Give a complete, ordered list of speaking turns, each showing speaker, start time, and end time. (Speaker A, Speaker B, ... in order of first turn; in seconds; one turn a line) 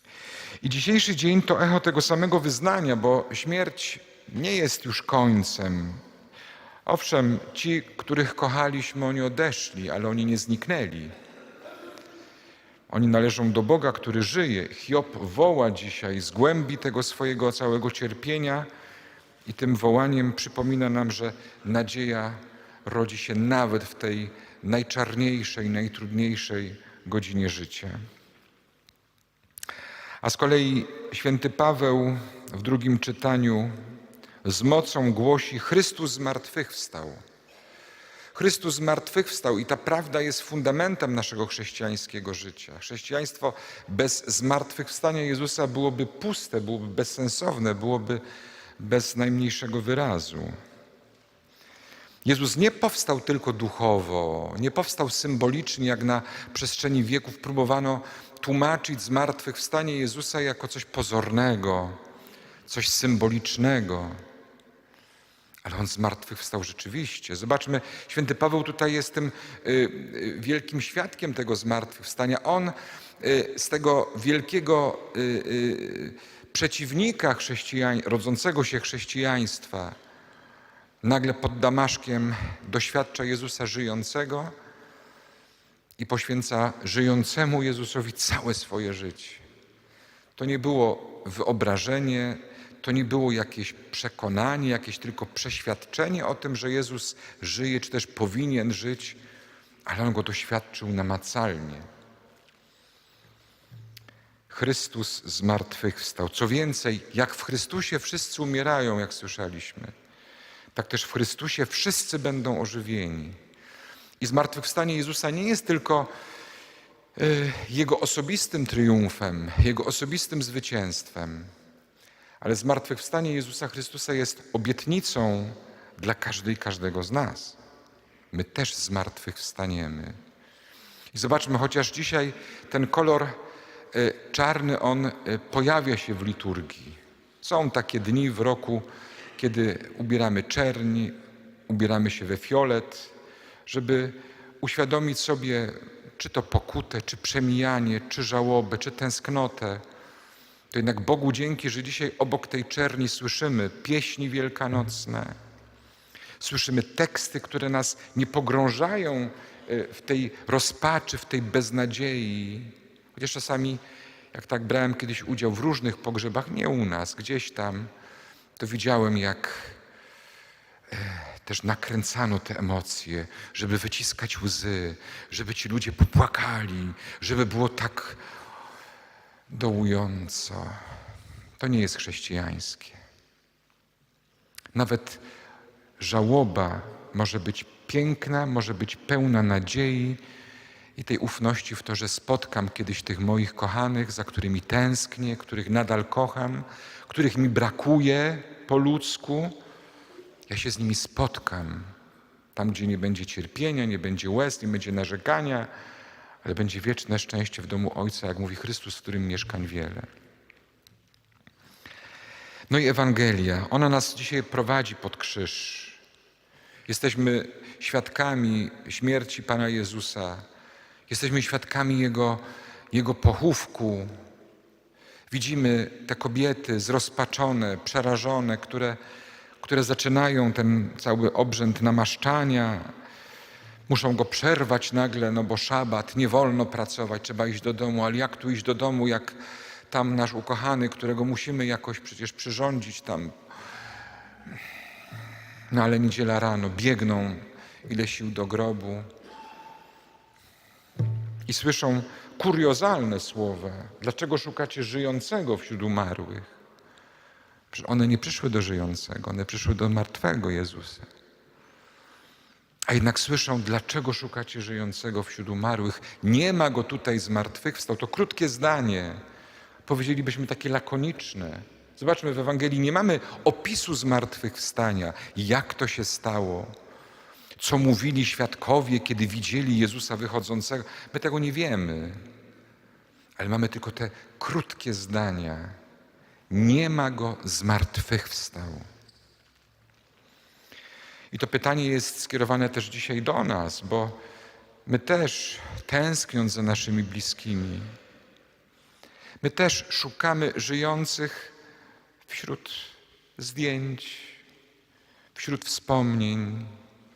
Speaker A: 0.6-6.0
Speaker A: 6.9-11.1
Speaker A: 12.9-18.7
Speaker A: 19.4-28.0
Speaker A: 30.2-33.7
Speaker A: 34.4-37.2
Speaker A: 38.4-48.2
Speaker A: 48.8-50.5
Speaker A: 52.2-62.0
Speaker A: 62.7-64.2
Speaker A: 65.6-80.0
Speaker A: 81.0-84.5
Speaker A: 86.0-89.4
Speaker A: 90.4-99.2
Speaker A: 99.9-101.9
Speaker A: 104.5-109.9
Speaker A: 110.8-113.4
Speaker A: 114.2-116.1
Speaker A: 117.2-121.5
Speaker A: 122.4-127.6
Speaker A: 128.3-130.2
Speaker A: 131.1-133.4
Speaker A: 133.9-141.2
Speaker A: 141.7-143.1
Speaker A: 143.7-149.8
Speaker A: 150.7-155.3
Speaker A: 156.4-163.8
Speaker A: 164.3-167.9
Speaker A: 168.6-169.8
Speaker A: 170.9-178.2
Speaker A: 179.5-180.8
Speaker A: 181.6-183.0
Speaker A: 184.7-185.2
Speaker A: 186.0-190.2
Speaker A: 191.0-199.6
Speaker A: 200.5-201.9
Speaker A: 202.6-205.7
Speaker A: 206.4-210.1
Speaker A: 212.7-216.0
Speaker A: 216.9-220.4
Speaker A: 221.1-224.1
Speaker A: 225.3-229.0
Speaker A: 229.6-232.9
Speaker A: 233.9-239.4
Speaker A: 239.9-243.3
Speaker A: 245.7-249.1
Speaker A: 251.5-256.5
Speaker A: 257.7-261.1
Speaker A: 262.9-269.2
Speaker A: 269.9-276.7
Speaker A: 277.6-282.2
Speaker A: 283.4-285.8
Speaker A: 286.5-288.9
Speaker A: 291.3-294.2
Speaker A: 294.9-297.9
Speaker A: 299.4-301.5
Speaker A: 302.2-304.4
Speaker A: 305.4-306.7